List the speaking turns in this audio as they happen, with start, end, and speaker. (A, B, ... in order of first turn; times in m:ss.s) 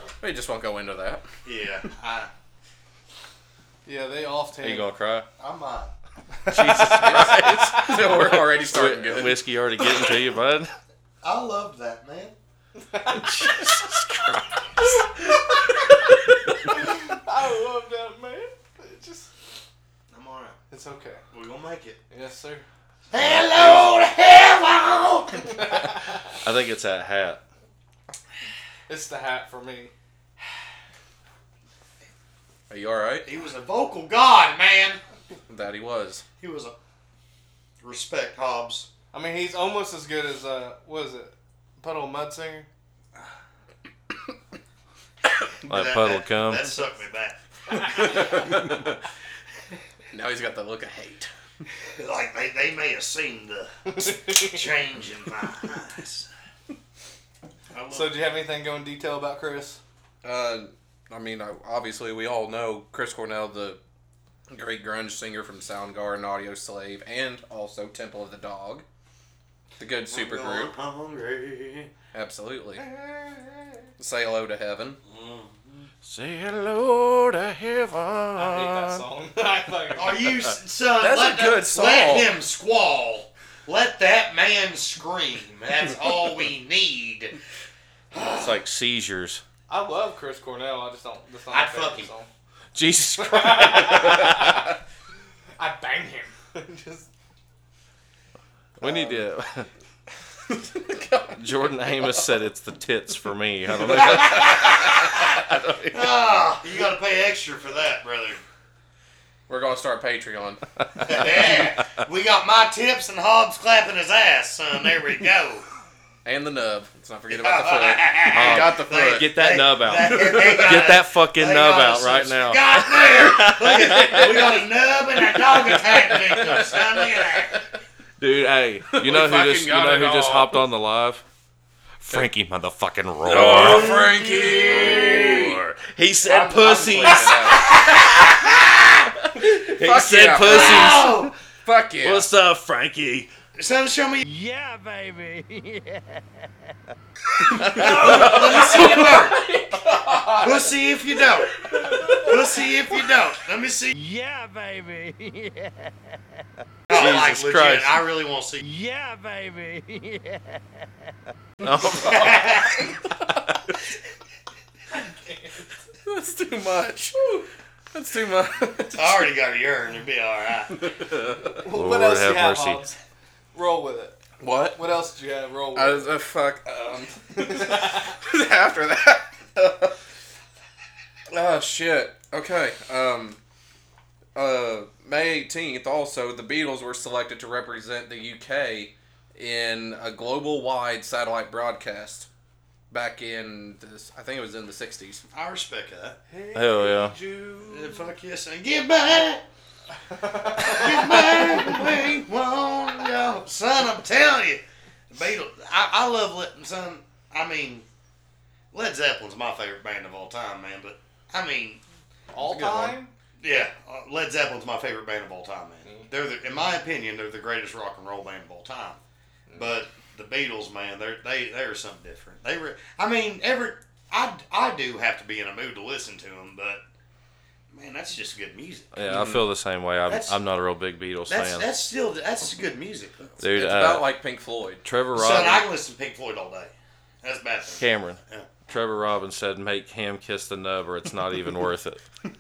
0:00.2-0:01.3 A
0:01.4-0:02.3 B
0:03.9-0:04.9 C
0:04.6-0:05.3 D
0:05.4-0:05.9 B
0:06.5-0:08.2 C
0:06.5-0:10.7 D
0:06.7-0:09.4 A
0:11.2-0:12.4 B
0:12.9-0:13.3 C
0:13.1-0:15.0 D
0:16.6-0:19.3 C
0:20.1-0:20.6 B
0:20.7-0:21.2 C
0:21.3-0:22.0 B
0:22.1-0:22.6 C
0:23.1-0:25.7 B
0:23.2-0:23.8 D
0:26.4-0:27.4 D
0:28.9-0:29.9 C
0:32.7-0:33.3 A
0:33.2-0:35.0 B
0:35.5-0:36.2 A
0:36.4-0:36.8 B
0:37.8-0:38.9 B
0:39.1-0:42.7 C
0:45.7-0:46.7 D
0:45.7-0:48.4 B
0:47.8-0:49.0 A
0:50.1-0:51.3 A
0:51.9-0:56.3 B
0:53.9-0:54.6 C
0:57.7-0:58.2 B
0:57.9-0:59.8 C
1:00.2-1:03.8 A
1:04.5-1:08.8 A
1:09.8-1:10.8 A
1:10.1-1:11.9 B
1:12.1-1:12.8 A
1:12.9-1:13.6 C
1:14.0-1:15.0 A
1:15.1-1:15.9 B
1:16.0-1:19.0 D
1:18.4-1:20.3 C
1:20.0-1:27.4 B
1:21.0-1:22.3 A
1:28.1-1:28.6 B
1:28.4-1:29.4 D
1:29.7-1:32.3 C
1:31.5-1:32.1 B
1:32.7-1:34.7 D
1:33.2-1:34.6 C
1:35.6-1:37.1 C
1:38.8-1:39.7 D
1:40.5-1:42.3 A
1:41.4-1:46.1 D
1:43.9-1:44.7 A
1:44.1-1:45.4 B
1:45.9-1:48.4 B
1:49.5-1:51.2 A
1:51.0-1:55.7 B
1:56.2-1:59.3 A
1:57.3-2:07.6 B
1:58.3-2:04.6 D
2:03.4-2:04.6 A
2:06.3-2:06.8 A
2:08.2-2:11.2 D
2:08.9-2:10.6 A
2:12.0-2:14.1 D
2:13.3-2:15.6 A
2:13.4-2:15.6 B
2:14.7-2:17.6 D
2:16.2-2:18.2 A
2:17.4-2:18.6 B
2:19.3-2:22.3 A
2:19.4-2:21.3 D
2:20.4-2:21.3 B
2:22.0-2:23.3 D
2:23.6-2:24.3 B
2:24.2-2:26.2 E
2:27.5-2:30.8 A
2:27.6-2:29.4 B
2:27.6-2:29.0 D
2:30.3-2:31.6 B
2:31.4-2:32.6 A
2:32.1-2:34.0 B
2:33.9-2:35.9 E
2:36.9-2:38.6 B
2:36.9-2:38.0 D
2:38.6-2:40.6 E
2:41.6-2:42.6 D
2:41.6-2:43.3 A
2:41.9-2:43.0 B
2:45.0-2:45.5 C
2:46.0-2:49.2 A
2:48.9-2:50.8 B
2:50.7-2:51.6 A
2:51.6-2:53.0 C
2:51.7-2:52.8 D
2:53.5-2:54.2 C
2:54.4-2:55.0 A
2:54.7-2:56.1 C
2:55.7-3:00.0 A
2:57.4-2:58.1 C
3:01.3-3:03.4 A
3:04.4-3:12.3 A
3:12.9-3:15.2 A
3:15.3-3:16.2 B
3:16.3-3:18.1 C
3:16.5-3:17.2 D
3:17.6-3:19.5 B
3:20.1-3:21.9 C
3:20.5-3:27.9 B
3:28.7-3:31.8 B
3:32.3-3:33.1 C
3:32.4-3:33.0 A
3:33.4-3:39.0 B
3:39.5-3:46.8 B
3:47.7-3:48.9 B
3:48.9-3:51.7 D
3:49.1-3:49.4 A
3:50.1-3:50.4 B
3:51.3-3:53.4 B
3:53.4-3:54.1 D
3:53.5-3:54.8 A
3:54.8-3:55.7 D
3:55.1-3:58.5 B
3:57.8-4:02.0 D